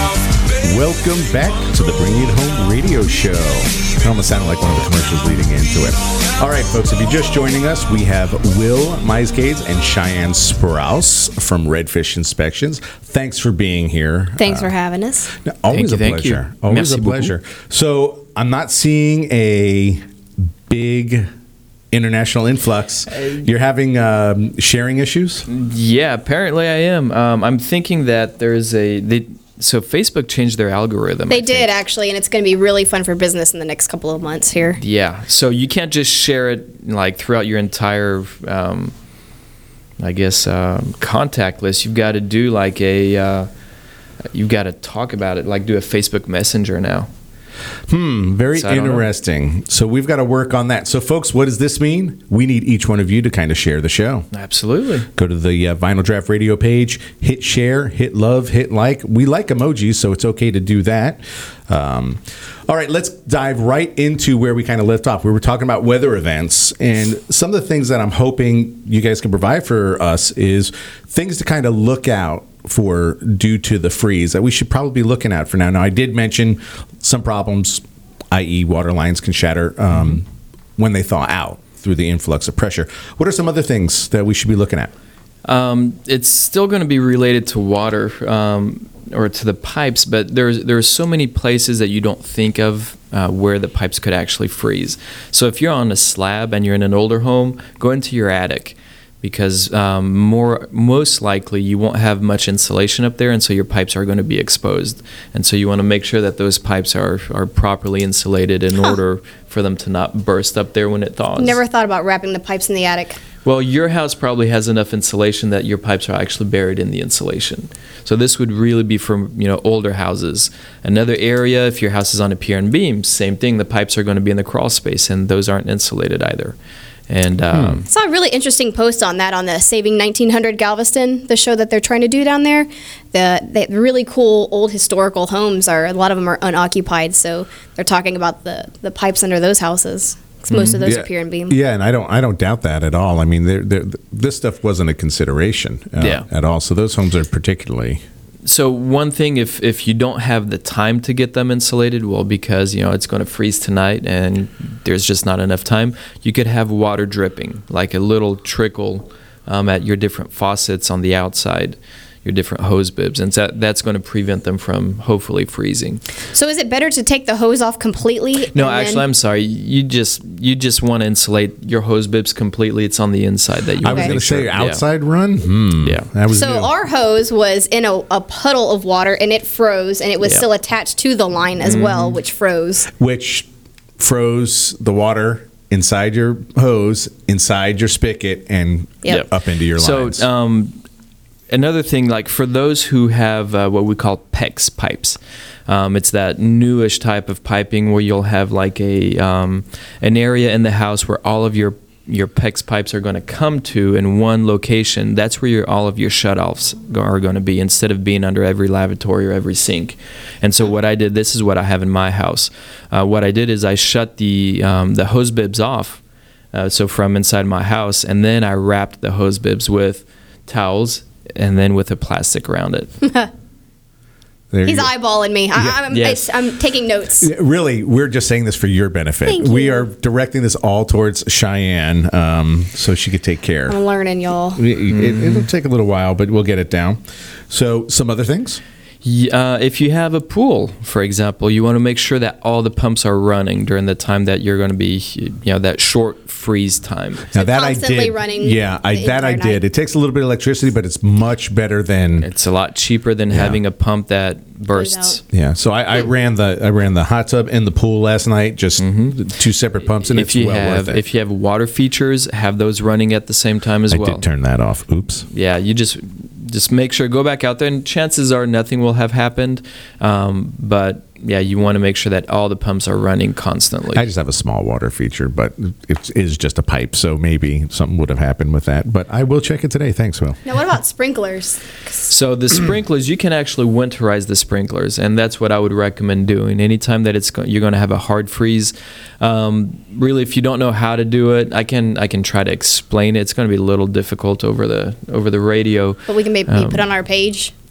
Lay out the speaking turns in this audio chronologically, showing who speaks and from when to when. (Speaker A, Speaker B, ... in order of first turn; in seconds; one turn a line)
Speaker A: 0.6-14.7
Speaker B: 14.4-15.3
Speaker A: 15.4-21.3
Speaker C: 15.7-17.3
Speaker A: 21.9-25.4
Speaker C: 25.5-31.7
Speaker B: 31.3-34.8
Speaker C: 34.8-38.9
Speaker C: 40.0-43.5
Speaker C: 44.3-47.1
Speaker A: 47.9-54.3
Speaker C: 48.5-49.1
Speaker C: 54.3-55.1
Speaker A: 55.1-84.9
Speaker C: 85.4-111.6
Speaker B: 111.4-113.2
Speaker C: 113.4-126.5
Speaker C: 127.1-127.8
Speaker A: 127.5-127.8
Speaker B: 127.9-141.6
Speaker C: 140.5-140.9
Speaker A: 140.8-148.0
Speaker C: 146.0-146.2
Speaker C: 148.4-166.0
Speaker B: 166.3-169.0
Speaker C: 168.5-174.8
Speaker A: 173.8-176.7
Speaker B: 173.9-174.1
Speaker C: 175.8-176.1
Speaker B: 176.3-182.9
Speaker C: 181.6-182.2
Speaker A: 182.9-190.2
Speaker C: 189.1-190.8
Speaker C: 191.5-216.0
Speaker C: 216.5-222.9
Speaker B: 223.0-223.3
Speaker A: 224.5-224.9
Speaker B: 224.6-227.3
Speaker A: 225.5-225.8
Speaker C: 225.9-226.2
Speaker A: 227.2-233.8
Speaker B: 229.2-229.9
Speaker B: 233.7-234.6
Speaker A: 234.6-238.6
Speaker C: 234.9-235.5
Speaker C: 239.0-247.2
Speaker A: 247.3-252.3
Speaker B: 247.3-249.6
Speaker C: 252.2-255.2
Speaker A: 253.3-253.6
Speaker B: 254.7-255.2
Speaker A: 255.3-261.0
Speaker C: 258.8-259.1
Speaker C: 260.1-264.2
Speaker A: 263.9-265.3
Speaker C: 265.3-274.1
Speaker A: 273.9-280.4
Speaker B: 280.4-282.0
Speaker C: 282.1-296.9
Speaker B: 296.1-297.5